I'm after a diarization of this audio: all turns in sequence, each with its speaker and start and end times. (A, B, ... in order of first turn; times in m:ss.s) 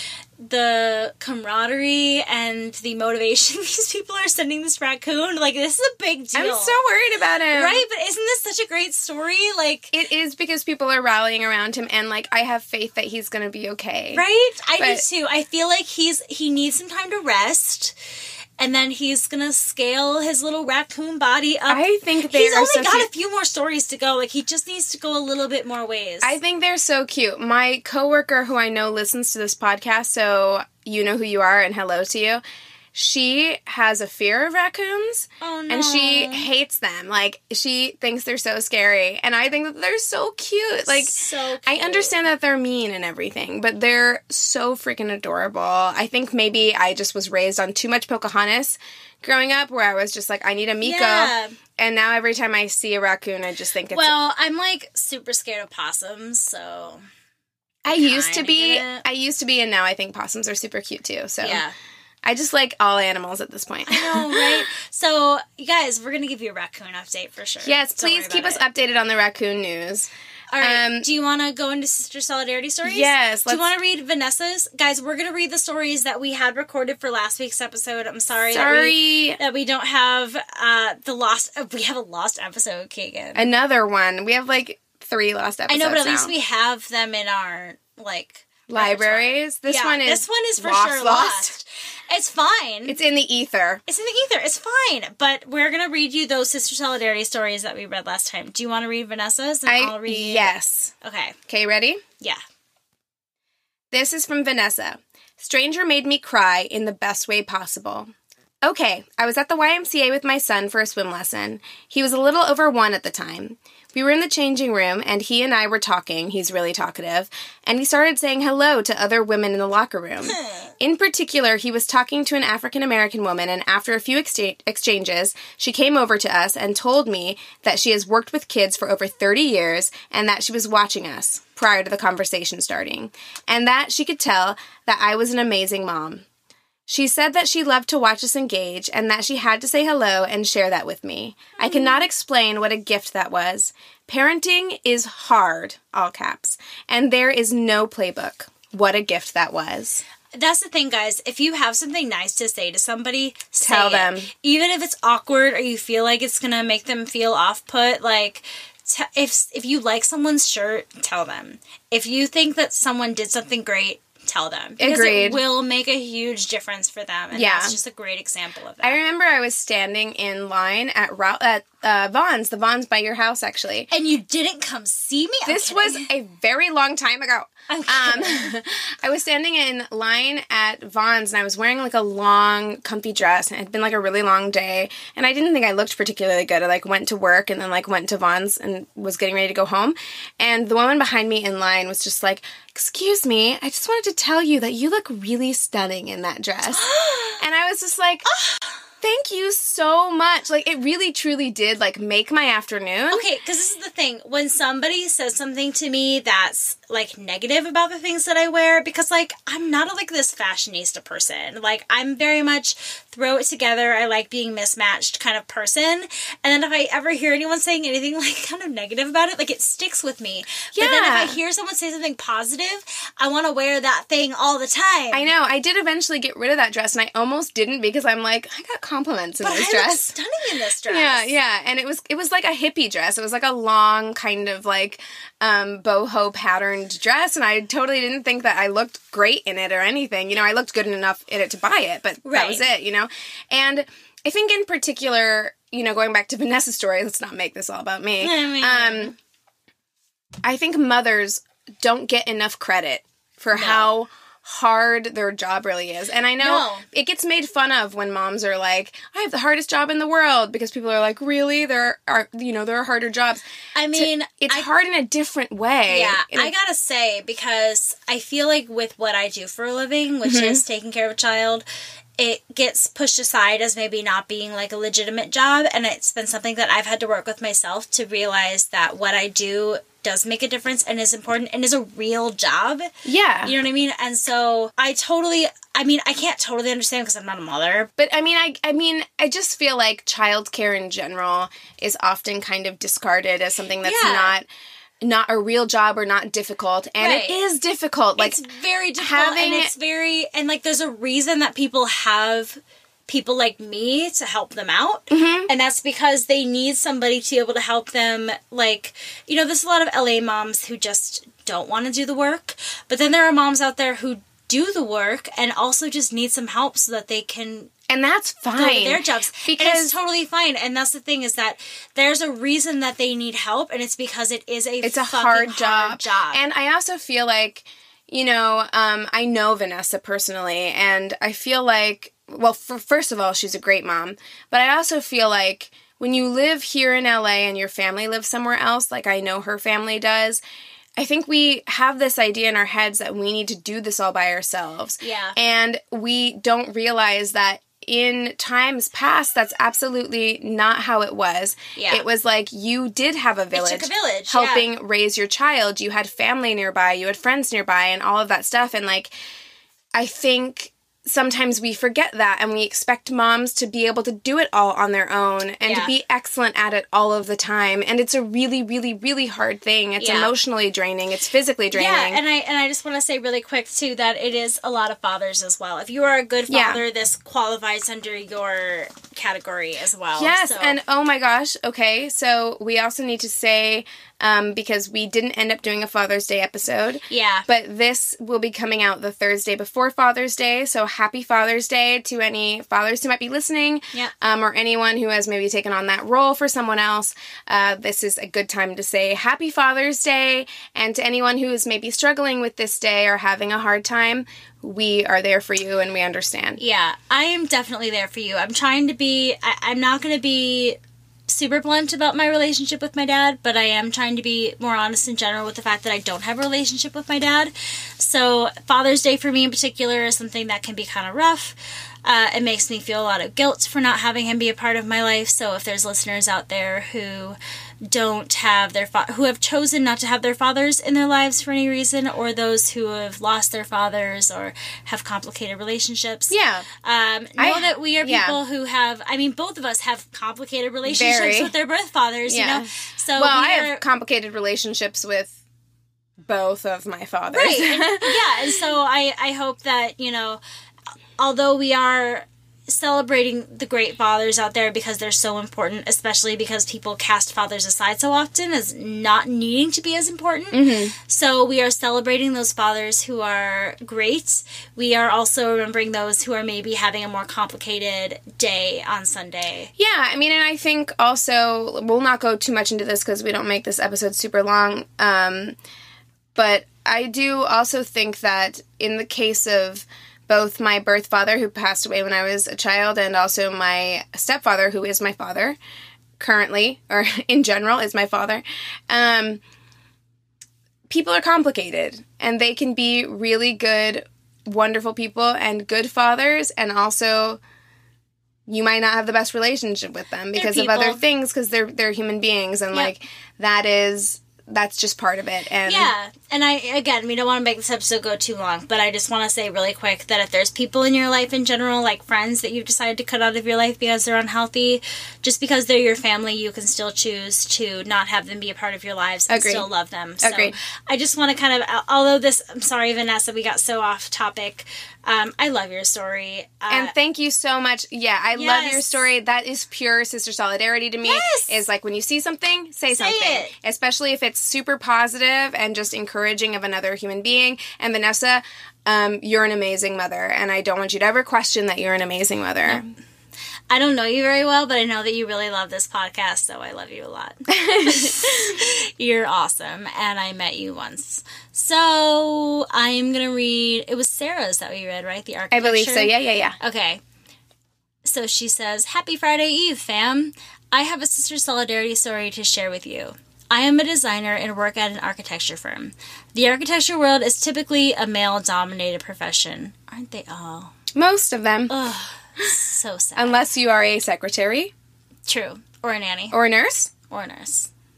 0:00.4-0:06.8 A
0:06.3-0:07.8 B
0:07.5-0:09.9 A
0:09.9-0:14.2 B
0:14.1-0:18.0 A
0:14.8-0:15.0 B
0:18.6-0:26.4 A
0:21.7-0:23.1 B
0:26.2-0:32.4 B
0:32.9-0:54.2 B
0:35.4-0:36.5 A
0:40.9-0:42.2 A
0:50.8-0:51.6 A
0:53.9-0:57.0 A
0:57.8-1:01.6 B
0:57.9-0:59.1 A
1:01.4-1:01.7 A
1:02.2-1:04.7 B
1:03.9-1:08.6 A
1:07.6-1:11.1 B
1:10.5-1:23.5 A
1:12.8-1:13.7 B
1:18.5-1:19.4 B
1:23.4-1:26.3 B
1:25.7-1:33.0 A
1:28.7-1:31.6 B
1:32.9-1:33.8 B
1:33.9-1:41.4 A
1:39.7-1:40.9 B
1:41.5-1:42.0 B
1:43.9-2:16.2 B
2:00.3-2:00.7 A
2:16.9-2:30.0 B
2:21.6-2:22.0 A
2:30.3-2:49.0 A
2:33.6-2:34.3 B
2:44.8-2:45.4 B
2:47.3-2:47.8 B
2:48.8-2:53.9 B
2:53.9-2:56.1 A
2:55.4-3:16.9 B
2:57.7-2:58.5 A
3:16.7-3:17.4 A
3:17.4-3:18.3 B
3:18.3-3:18.8 A
3:19.0-3:23.2 B
3:23.1-3:45.3 A
3:40.8-3:41.4 B
3:45.1-3:50.1 B
3:49.4-3:51.4 A
3:50.9-4:09.2 B
4:02.2-4:02.7 A
4:08.2-4:09.1 A
4:10.4-4:26.5 B
4:13.5-4:13.9 A
4:16.4-4:16.9 A
4:23.8-4:24.7 A
4:25.9-4:31.6 A
4:30.2-4:30.6 B
4:32.2-4:42.9 A
4:43.0-4:43.6 B
4:43.4-4:47.9 A
4:48.0-4:54.5 B
4:53.8-4:54.4 A
4:55.0-4:58.4 B
4:57.0-4:57.4 A
4:58.2-5:17.7 A
4:59.0-4:59.7 B
5:05.1-5:05.5 B
5:17.9-5:19.9 B
5:18.5-5:26.4 A
5:24.8-5:40.4 B
5:41.0-5:59.1 B
5:45.0-5:45.4 A
5:51.8-5:52.1 A
5:53.5-5:54.7 A
5:59.9-6:12.2 B
6:05.6-6:05.9 A
6:10.0-6:10.3 A
6:11.7-6:20.8 A
6:16.5-6:16.8 B
6:20.2-6:46.6 B
6:27.1-6:27.5 A
6:46.6-7:23.8 A
7:16.3-7:16.7 B
7:17.4-7:18.4 B
7:20.9-7:21.6 B
7:22.3-7:25.4 B
7:26.2-7:28.6 B
7:27.3-7:30.4 A
7:31.2-7:49.7 A
7:40.5-7:40.9 B
7:49.8-7:55.6 B
7:56.4-8:05.6 B
8:06.2-8:09.4 B
8:10.9-8:17.4 B
8:18.5-8:25.9 B
8:20.3-8:21.0 A
8:25.6-8:46.9 A
8:39.3-8:39.7 B
8:40.2-8:40.6 B
8:46.7-9:02.9 B
8:48.4-8:49.0 A
8:51.0-8:51.6 A
8:52.9-8:53.6 A
9:03.7-9:17.0 A
9:07.5-9:08.6 B
9:15.5-9:16.6 B
9:18.0-9:30.7 A
9:30.9-9:31.9 B
9:31.7-9:33.4 A
9:33.2-9:34.7 B
9:35.3-9:36.4 A
9:36.3-9:36.9 B
9:37.1-9:37.7 A